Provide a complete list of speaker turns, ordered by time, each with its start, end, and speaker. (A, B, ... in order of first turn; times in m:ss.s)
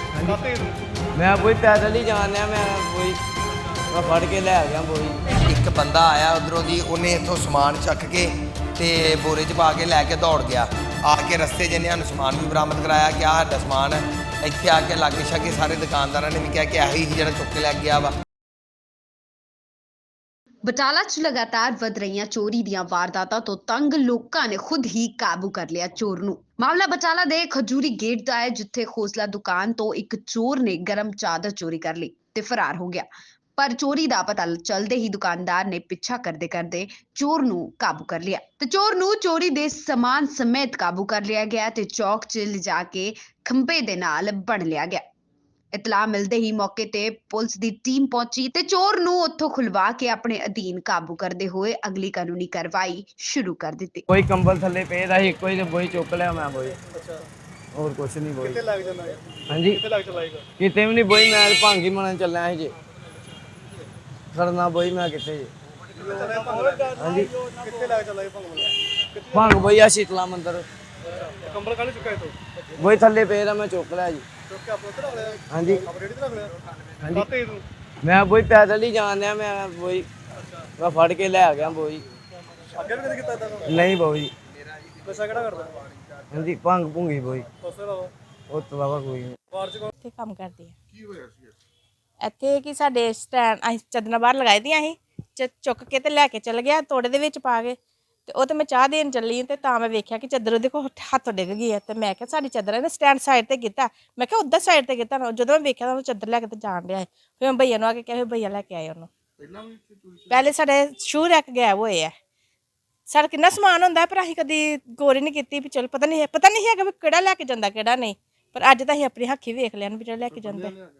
0:00.1-0:00.4 A
0:00.3-0:00.8 B
0:01.1-0:03.2 A
0:03.9-0:05.4 A
0:05.4-0:18.1 C
0:20.6-0:45.0 D
0:45.7-0:54.0 D
0:54.1-0:56.8 A
0:56.9-0:57.2 B
0:57.7-0:58.7 A
0:58.7-0:59.2 B
0:59.5-0:59.8 A
0:59.8-1:00.4 B
1:00.6-1:02.7 A
1:04.3-1:05.5 A
1:06.0-1:09.5 B
1:06.9-1:07.3 A
1:09.3-1:10.6 A
1:11.3-1:12.4 B
1:12.8-1:14.2 A
1:14.5-1:16.5 B
1:15.5-1:15.9 A
1:17.0-1:17.3 A
1:17.1-1:17.6 B
1:18.0-1:20.1 A
1:20.8-1:22.0 A
1:22.7-1:23.6 B
1:23.6-1:24.3 A
1:25.0-1:25.8 B
1:26.3-1:27.5 A
1:27.6-1:28.1 B
1:28.5-1:29.4 A
1:30.0-1:30.8 E
1:32.2-1:49.1 E
1:50.3-1:52.1 E
1:53.1-2:00.7 E